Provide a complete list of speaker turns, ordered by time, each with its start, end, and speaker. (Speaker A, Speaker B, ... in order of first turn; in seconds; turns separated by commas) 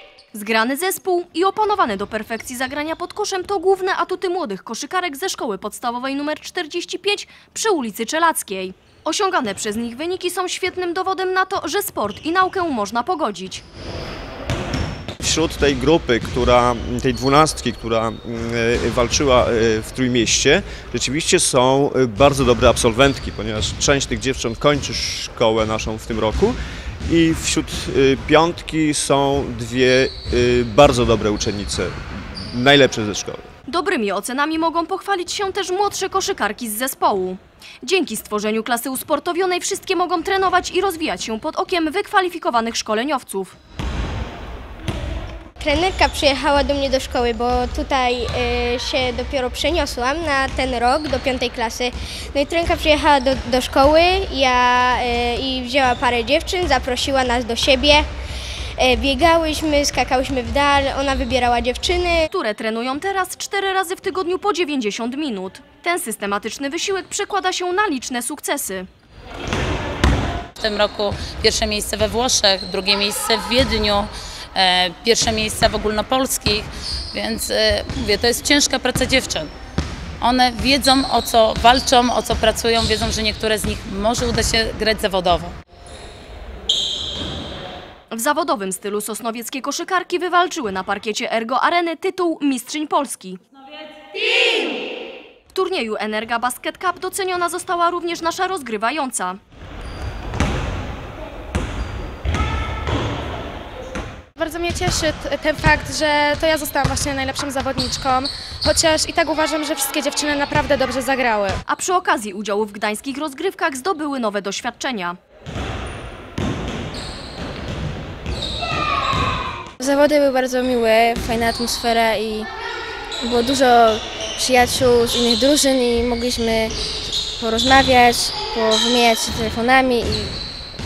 Speaker A: 0.3-13.6, Speaker B: 15.2-26.5, Speaker B: 27.1-33.4, Speaker A: 33.7-43.5, Speaker C: 45.6-58.1, Speaker C: 58.8-62.3, Speaker A: 62.3-68.9, Speaker D: 70.6-79.5, Speaker D: 80.2-85.5, Speaker A: 88.1-93.4, Speaker A: 95.5-99.4, Speaker E: 104.4-111.6, Speaker A: 111.7-115.2, Speaker F: 119.8-122.5, Speaker F: 123.2-126.7, Speaker F: 127.4-130.3